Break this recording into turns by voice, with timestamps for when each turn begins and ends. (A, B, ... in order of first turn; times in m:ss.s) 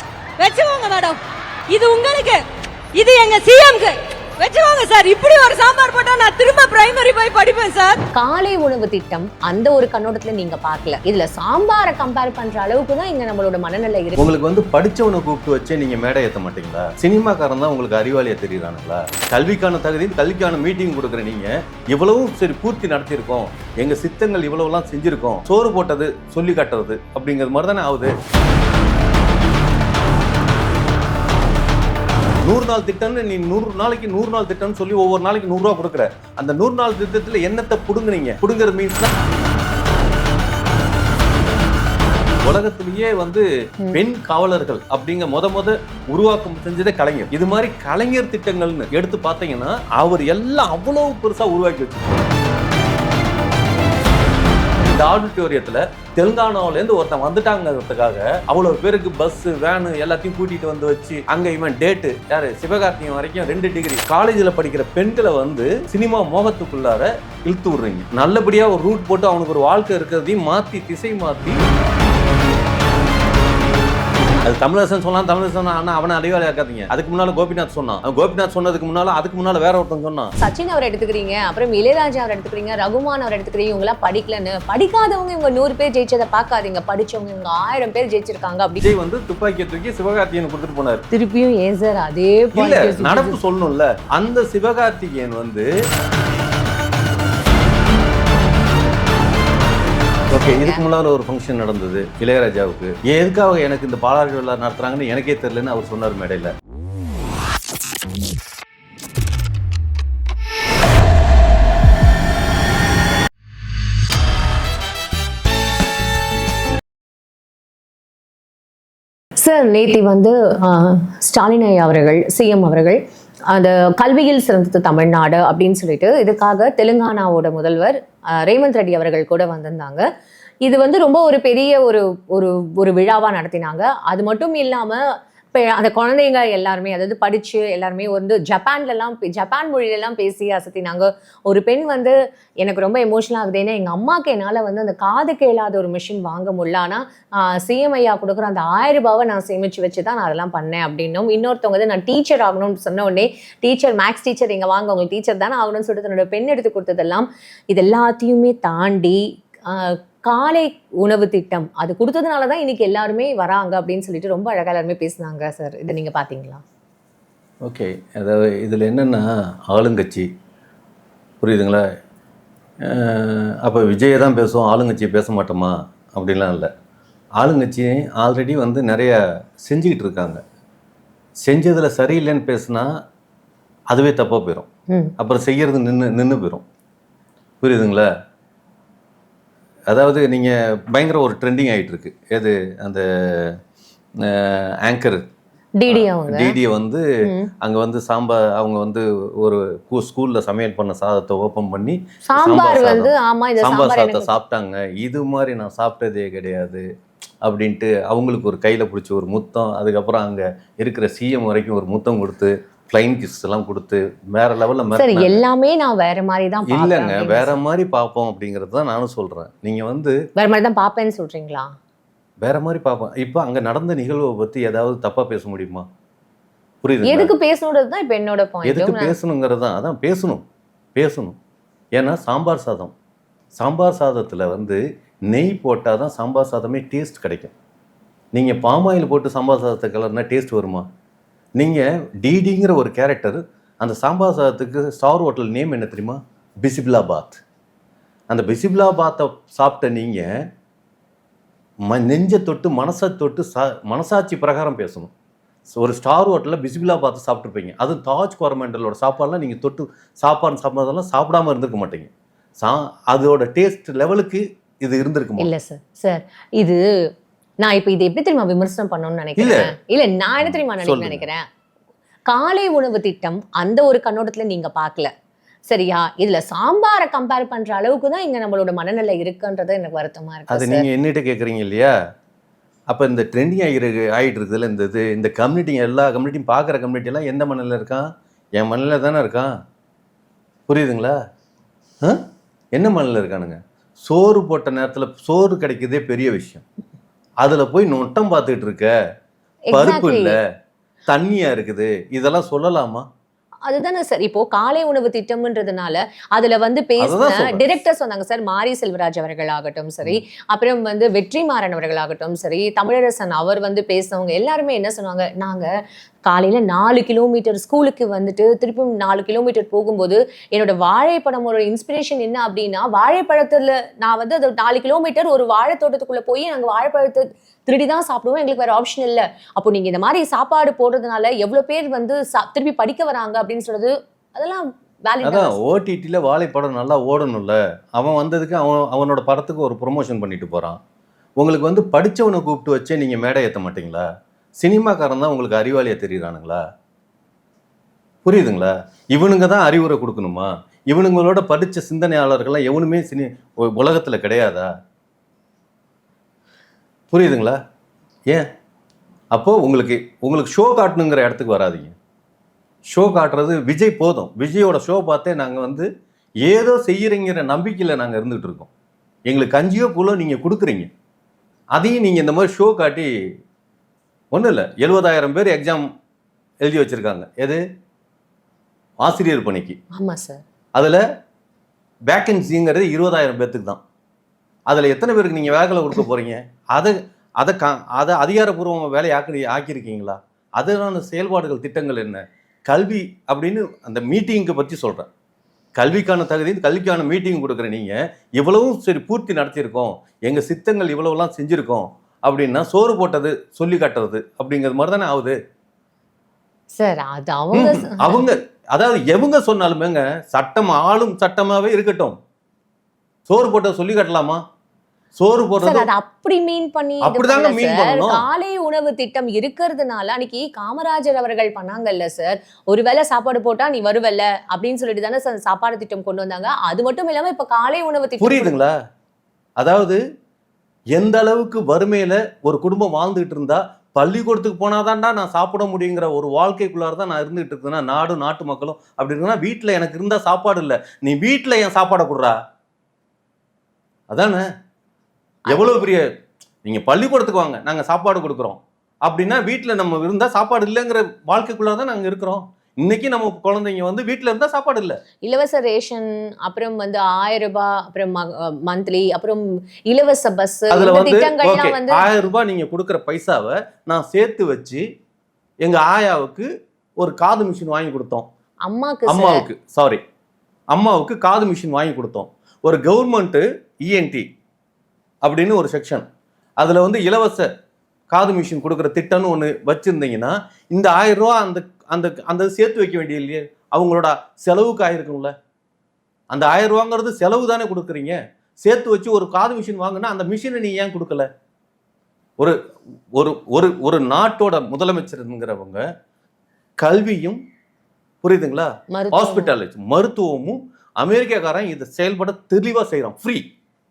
0:00.4-0:01.2 A
0:01.7-0:02.4 A
0:03.0-0:08.0 A
0:08.1-0:14.3 B
0:14.2-0:28.1 C
0:32.4-0:39.1 C
0:42.4-0:52.3 C
0:54.8-1:11.6 C
1:14.4-1:20.3 C
1:20.4-1:28.8 B
1:28.8-1:31.0 C
1:31.1-1:33.4 B
1:32.5-1:35.7 C
1:40.3-1:46.5 C
1:40.3-1:40.8 B
1:59.4-2:10.0 B
2:10.6-2:46.6 B
2:47.6-2:50.3 C
2:51.4-2:51.8 C
2:52.8-2:56.7 C
2:57.4-3:00.4 C
3:01.4-3:02.9 C
3:03.9-3:04.7 C
3:05.2-3:06.6 C
3:07.6-3:08.1 C
3:09.9-3:13.6 C
3:14.2-3:15.2 C
3:15.8-3:16.6 B
3:15.9-3:17.1 C
3:17.2-3:17.5 B
3:17.6-3:26.8 C
3:22.2-3:24.3 B
3:27.4-3:35.4 C
3:35.0-3:37.6 B
3:36.7-3:40.2 C
3:40.4-3:41.8 B
3:42.4-3:45.9 C
3:46.8-3:47.3 C
3:47.0-3:49.1 B
3:48.6-3:51.4 C
3:51.9-3:52.9 C
3:53.5-3:57.5 C
3:58.3-4:00.9 C
4:01.6-4:07.4 C
4:08.3-4:10.3 C
4:11.9-4:15.1 C
4:15.7-4:25.5 C
4:25.4-4:26.8 B
4:27.6-4:31.4 B
4:29.4-4:29.7 C
4:30.4-4:31.2 C
4:32.3-4:35.1 B
4:35.7-4:40.8 B
4:40.5-4:41.9 C
4:42.9-4:49.5 C
4:50.7-4:51.1 C
4:52.7-4:56.6 C
4:57.4-4:58.9 C
4:59.7-5:00.4 B
4:59.7-5:00.4 C
5:01.1-5:03.0 C
5:03.7-5:15.7 B
5:07.0-5:07.6 C
5:16.2-5:35.6 B
5:35.2-5:40.8 C
5:41.4-5:44.0 C
5:44.6-5:46.6 C
5:48.2-5:54.7 C
5:57.1-5:57.6 C
5:59.3-6:01.9 C
6:02.9-6:05.9 C
6:06.4-6:08.7 C
6:09.3-6:10.9 C
6:11.8-6:13.1 C
6:14.3-6:15.9 C
6:16.6-6:17.6 C
6:19.0-6:19.8 C
6:19.9-6:20.4 B
6:20.8-6:21.0 C
6:22.1-6:23.8 C
6:24.7-6:35.1 C
6:35.8-6:45.4 C
6:46.7-6:48.3 B
6:47.5-6:52.2 C
6:53.3-6:54.4 C
6:55.2-6:55.9 C
6:55.6-7:08.5 B
6:57.0-6:58.2 C
7:08.2-7:08.7 C
7:09.6-7:10.0 C
7:10.9-7:22.4 C
7:24.1-7:24.4 C
7:25.5-7:26.0 C
7:25.5-7:25.8 B
7:26.6-7:35.0 C
7:35.2-7:42.1 B
7:40.7-7:44.8 C
7:45.6-7:48.2 C
7:48.6-7:49.4 B
7:49.1-7:50.0 C
7:50.7-7:54.2 C
7:55.2-7:56.0 C
7:56.6-7:57.5 C
7:58.1-8:05.3 C
8:06.3-8:11.3 C
8:13.1-8:15.8 C
8:16.8-8:17.4 C
8:18.2-8:23.4 C
8:18.9-8:19.5 B